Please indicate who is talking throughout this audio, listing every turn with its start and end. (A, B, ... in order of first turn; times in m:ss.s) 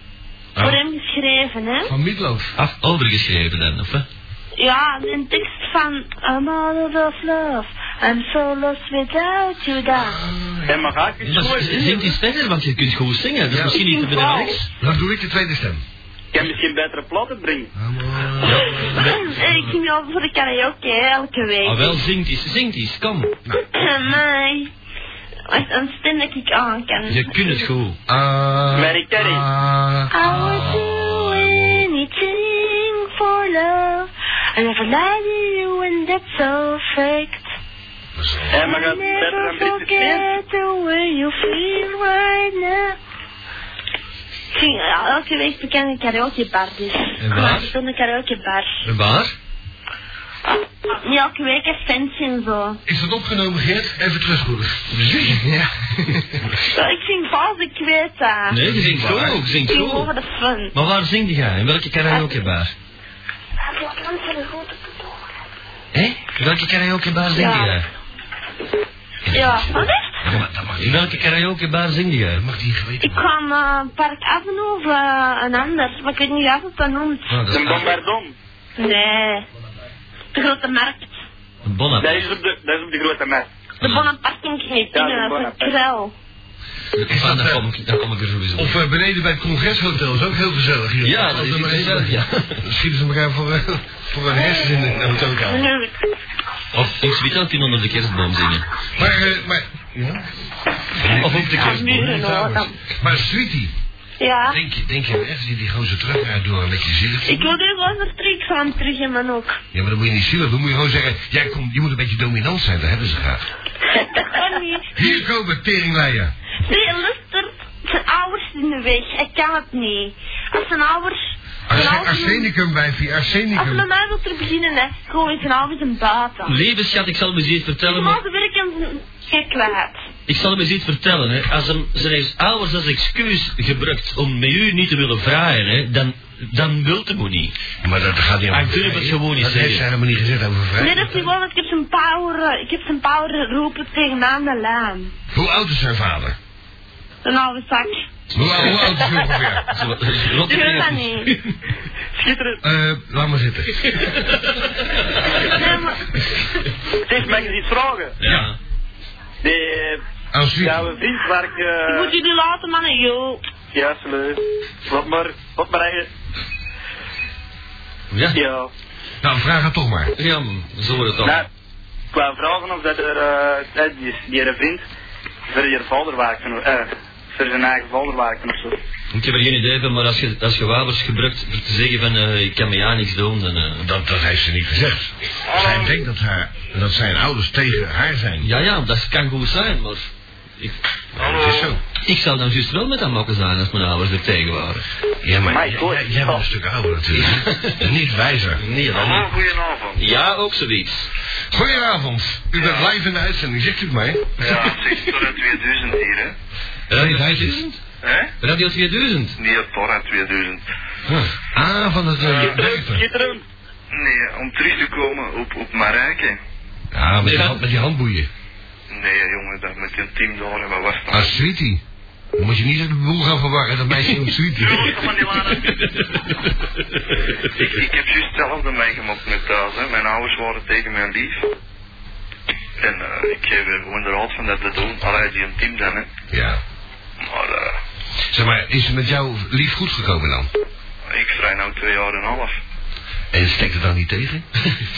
0:00.6-0:01.9 A
0:01.8-0:02.5 B
0:02.6-0:04.0 C
0:04.6-0:10.2 A
0:09.9-0:10.9 B
0:10.6-0:12.1 D
0:11.2-0:14.7 C
0:13.5-0:13.8 B
0:13.6-0:14.6 A
0:14.8-0:15.8 B
0:16.3-0:17.7 D
0:17.7-0:19.1 B
0:18.4-0:19.7 C
0:18.8-0:22.0 A
0:21.6-0:23.3 C
0:23.7-0:24.7 A
0:25.5-0:27.6 A
0:27.1-0:28.0 C
0:28.1-0:31.8 B
0:28.7-0:29.5 D
0:30.1-0:37.5 A
0:38.1-0:38.7 B
0:38.5-0:40.3 D
0:38.6-0:43.0 A
0:44.5-0:48.8 A
0:47.2-0:47.7 C
0:48.8-0:49.3 C
0:50.5-0:52.8 A
0:52.8-0:55.4 B
0:56.7-0:58.6 A
0:58.5-1:00.1 C
0:58.6-0:59.4 B
0:59.7-1:00.7 A
1:00.7-1:02.7 C
1:03.6-1:05.2 A
1:05.9-1:07.8 C
1:07.3-1:07.7 A
1:09.3-1:11.2 B
1:09.3-1:10.1 A
1:10.8-1:12.4 C
1:12.3-1:13.2 B
1:13.0-1:17.4 A
1:17.3-1:17.9 C
1:17.5-1:18.3 D
1:18.8-1:19.4 A
1:20.3-1:21.2 A
1:21.6-1:22.3 C
1:22.0-1:23.5 D
1:23.8-1:24.1 C
1:23.8-1:26.1 A
1:24.9-1:25.7 D
1:26.9-1:28.8 C
1:27.1-1:27.6 B
1:28.6-1:35.7 B
1:31.0-1:32.6 C
1:34.4-1:34.8 A
1:35.4-1:35.9 A
1:36.7-1:38.6 C
1:38.9-1:40.2 B
1:41.0-1:43.7 B
1:41.0-1:42.1 C
1:41.5-1:42.8 A
1:44.2-1:44.6 A
1:44.5-1:47.6 B
1:47.2-1:49.6 A
1:49.7-1:53.4 B
1:54.2-1:55.2 A
1:54.9-1:56.3 B
1:56.6-2:02.5 A
2:01.7-2:03.8 B
2:03.5-2:06.6 A
2:06.4-2:08.2 C
2:07.8-2:10.0 A
2:10.3-2:17.5 C
2:17.8-2:21.3 B
2:18.5-2:19.8 C
2:20.8-2:25.1 A
2:25.3-2:26.4 B
2:27.2-2:28.0 A
2:28.3-2:29.7 B
2:28.4-2:28.8 C
2:29.7-2:31.5 C
2:30.4-2:31.3 A
2:32.1-2:32.6 D
2:32.6-2:33.8 B
2:33.9-2:35.2 C
2:35.3-2:36.0 A
2:37.0-2:38.2 D
2:38.2-2:38.6 C
2:38.2-2:38.5 B
2:39.4-2:40.0 D
2:40.3-2:40.9 B
2:40.6-2:42.1 D
2:41.8-2:43.4 A
2:43.7-2:46.1 D
2:48.1-2:48.4 C
2:48.3-2:48.7 D
2:49.2-2:50.1 B
2:50.2-2:51.4 C
2:52.1-2:54.8 D
2:55.5-2:58.8 D
2:59.1-3:03.8 C
3:03.8-3:08.5 B
3:05.5-3:06.0 E
3:08.4-3:10.8 C
3:11.2-3:11.8 B
3:11.2-3:11.8 E
3:12.0-3:14.8 C
3:15.2-3:18.6 B
3:15.4-3:16.4 D
3:17.1-3:17.9 C
3:18.6-3:19.3 C
3:18.9-3:20.0 E
3:20.0-3:21.1 C
3:21.5-3:24.5 B
3:22.5-3:22.9 E
3:24.4-3:26.3 E
3:24.4-3:24.8 C
3:26.9-3:27.8 C
3:26.9-3:27.6 B
3:28.0-3:28.3 E
3:28.4-3:29.3 C
3:29.4-3:30.6 E
3:31.1-3:33.0 B
3:32.2-3:32.6 E
3:32.3-3:33.4 D
3:33.9-3:36.4 E
3:36.9-3:38.3 B
3:37.2-3:37.6 C
3:38.9-3:41.3 E
3:41.1-3:41.8 B
3:42.4-3:45.1 B
3:44.6-3:45.8 E
3:45.4-3:46.2 C
3:47.5-3:51.5 E
3:52.8-3:56.1 E
3:56.3-3:56.6 B
3:57.2-3:57.8 E
3:58.3-4:00.5 B
4:01.1-4:02.6 E
4:03.3-4:04.4 B